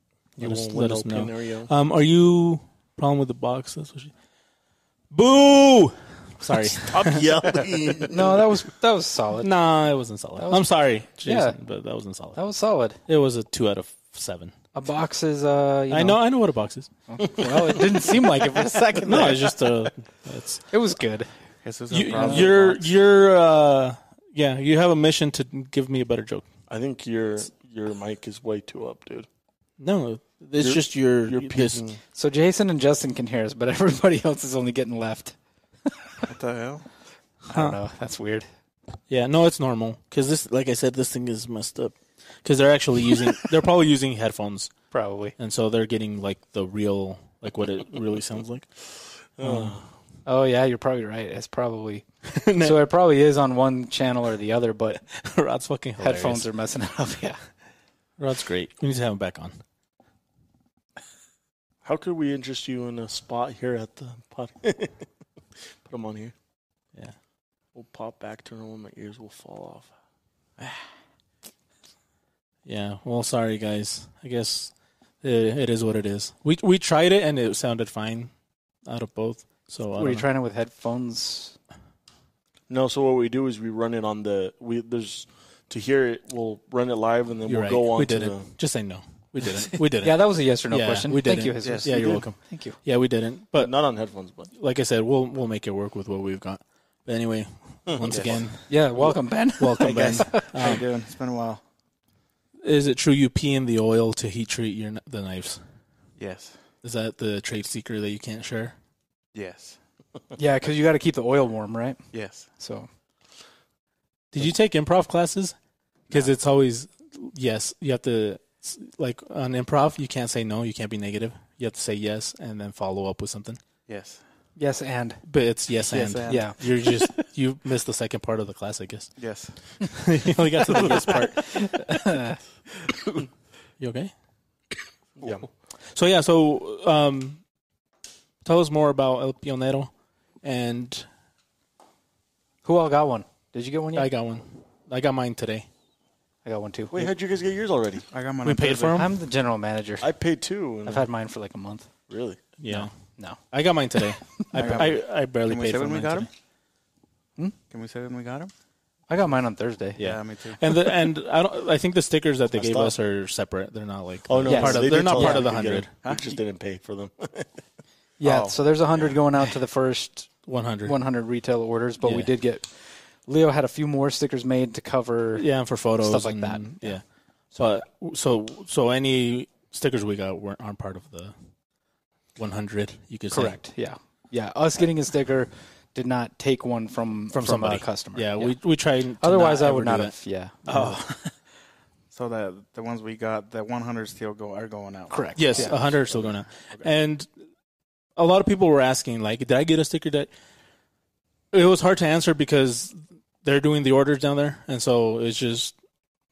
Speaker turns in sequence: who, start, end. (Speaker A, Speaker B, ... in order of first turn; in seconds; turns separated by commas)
Speaker A: 0.4-1.7, Speaker B: 0.4-4.1, Speaker B: 5.1-7.3, Speaker A: 6.9-8.4, Speaker C: 8.1-9.5, Speaker B: 9.4-12.4, Speaker C: 10.4-10.7, Speaker C: 11.2-11.5, Speaker C: 12.3-13.0, Speaker B: 13.1-14.5, Speaker C: 14.7-16.2, Speaker B: 15.9-16.9, Speaker C: 17.1-19.5, Speaker B: 19.0-20.6, Speaker C: 20.7-21.3, Speaker D: 21.6-22.8, Speaker B: 21.9-26.4, Speaker C: 22.1-22.5, Speaker A: 26.7-29.3, Speaker B: 29.8-31.8, Speaker A: 30.6-32.0, Speaker C: 32.1-35.4, Speaker D: 36.2-36.9, Speaker C: 37.5-38.5, Speaker B: 37.5-37.8, Speaker B: 39.1-44.7, Speaker C: 44.9-45.3, Speaker B: 45.4-48.7, Speaker A: 49.4-49.8, Speaker C: 49.4-49.7, Speaker C: 50.2-55.0, Speaker B: 52.3-52.7, Speaker B: 55.1-56.5, Speaker C: 56.0-57.4, Speaker B: 58.2-59.5, Speaker A: 61.8-65.1, Speaker A: 65.8-66.3, Speaker A: 67.7-69.9, Speaker B: 72.6-78.3, Speaker B: 78.8-80.2, Speaker C: 80.0-81.6, Speaker A: 82.7-88.5, Speaker B: 87.5-93.7, Speaker C: 90.0-92.8, Speaker D: 91.6-92.0, Speaker A: 93.5-94.5, Speaker B: 94.5-98.8, Speaker A: 97.9-98.4, Speaker D: 98.1-98.4, Speaker C: 98.7-100.5, Speaker B: 99.6-100.9, Speaker D: 99.8-101.6, Speaker B: 102.6-105.6, Speaker D: 106.2-106.6, Speaker B: 106.8-108.7, Speaker D: 109.3-109.8, Speaker C: 110.4-112.0, Speaker D: 112.1-112.5, Speaker C: 112.6-112.9, Speaker B: 114.3-115.5, Speaker B: 116.1-123.6, Speaker D: 123.9-124.2, Speaker C: 124.6-125.2, Speaker B: 125.2-129.2, Speaker D: 125.8-127.2, Speaker C: 126.3-126.6, Speaker D: 129.2-130.1, Speaker B: 129.8-131.7, Speaker D: 130.7-131.2, Speaker C: 131.5-132.4, Speaker B: 133.8-134.1, Speaker A: 135.2-135.4, Speaker B: 135.9-137.4, Speaker B: 138.4-139.9, Speaker B: 140.4-141.1, Speaker C: 142.6-144.1, Speaker B: 143.9-145.7, Speaker C: 146.4-147.1, Speaker A: 146.9-148.1, Speaker D: 148.1-149.0, Speaker B: 148.4-149.1, Speaker C: 148.9-150.1, Speaker A: 150.0-151.1, Speaker C: 150.8-151.9, Speaker A: 152.1-152.4, Speaker B: 152.6-152.9, Speaker C: 152.7-153.4, Speaker B: 153.5-156.3, Speaker D: 154.5-156.3, Speaker D: 157.7-158.5, Speaker C: 159.1-160.0, Speaker B: 160.0-165.9, Speaker D: 160.0-160.9, Speaker A: 162.5-162.9, Speaker A: 164.3-167.5, Speaker C: 164.4-165.4, Speaker D: 166.0-166.4, Speaker C: 168.2-170.3, Speaker D: 168.2-168.6, Speaker B: 170.4-170.9, Speaker C: 170.8-175.4, Speaker B: 172.0-172.3, Speaker B: 175.4-177.0, Speaker C: 176.0-177.0, Speaker B: 177.5-181.3, Speaker B: 182.4-183.6, Speaker C: 183.3-188.6, Speaker B: 187.3-190.1, Speaker C: 189.2-191.1, Speaker D: 190.7-191.3, Speaker D: 192.1-196.9, Speaker C: 195.1-195.7, Speaker B: 195.3-197.3, Speaker B: 198.2-200.3, Speaker B: 201.5-205.7